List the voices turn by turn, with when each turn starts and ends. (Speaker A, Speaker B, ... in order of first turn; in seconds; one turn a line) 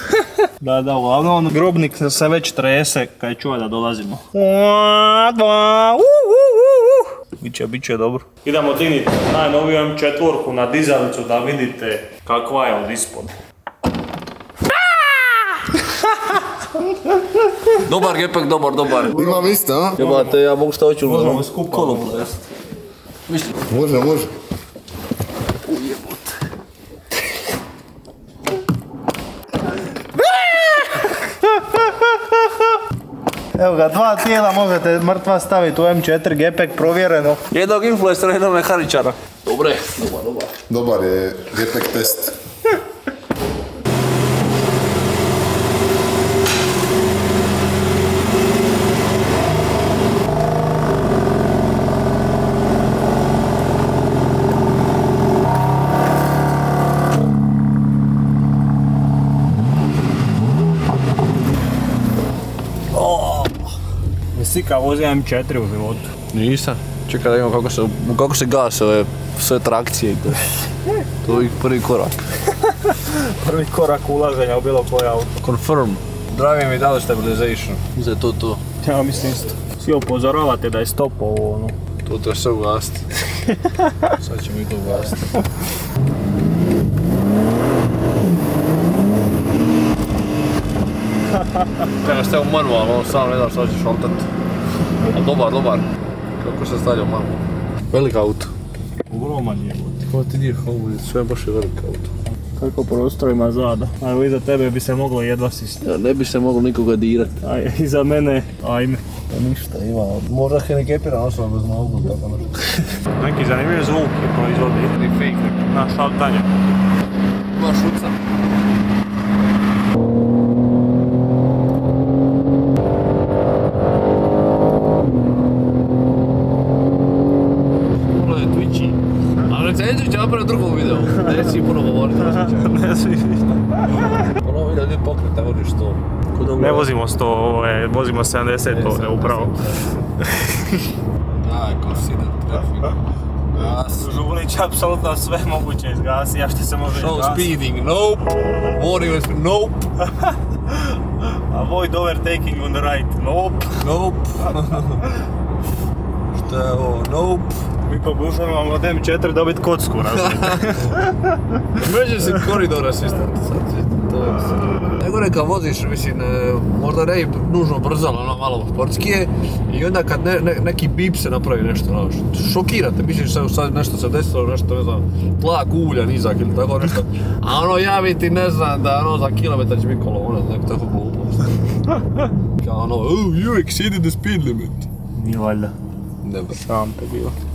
Speaker A: 0.6-13.3
Speaker B: 17.8-22.3
Speaker C: 19.1-20.0
Speaker A: 20.0-20.4
Speaker A: 21.0-22.4
Speaker B: 23.3-23.6
Speaker C: 23.7-24.3
Speaker B: 25.7-26.2
Speaker A: 30.4-30.9
Speaker A: 33.5-37.4
Speaker B: 37.5-40.5
Speaker C: 40.7-42.4
Speaker A: 62.9-63.7
Speaker A: 64.3-66.1
Speaker B: 66.3-70.4
Speaker B: 71.2-72.2
Speaker A: 72.8-75.3
Speaker B: 75.4-78.6
Speaker A: 78.8-81.8
Speaker B: 82.0-83.1
Speaker B: 84.2-85.2
Speaker B: 92.0-94.3
Speaker B: 95.1-95.8
Speaker B: 96.4-98.5
Speaker A: 99.1-100.1
Speaker B: 100.1-102.1
Speaker A: 102.6-105.9
Speaker B: 105.8-107.4
Speaker A: 107.4-109.0
Speaker B: 109.3-112.6
Speaker A: 113.2-114.9
Speaker B: 114.9-115.7
Speaker A: 115.7-116.5
Speaker B: 117.5-118.2
Speaker B: 128.0-132.8
Speaker A: 131.2-131.5
Speaker A: 132.2-134.1
Speaker B: 133.8-136.9
Speaker A: 136.6-139.6
Speaker B: 138.7-139.9
Speaker A: 140.2-140.6
Speaker B: 141.3-143.0
Speaker B: 143.5-144.1
Speaker A: 144.0-147.5
Speaker B: 147.0-149.9
Speaker A: 151.2-153.8
Speaker B: 153.8-155.0
Speaker B: 156.3-157.6
Speaker A: 157.8-161.1
Speaker B: 160.2-160.6
Speaker B: 161.8-181.5
Speaker B: 182.6-184.9
Speaker A: 185.2-185.7
Speaker B: 186.2-186.6
Speaker A: 186.6-187.4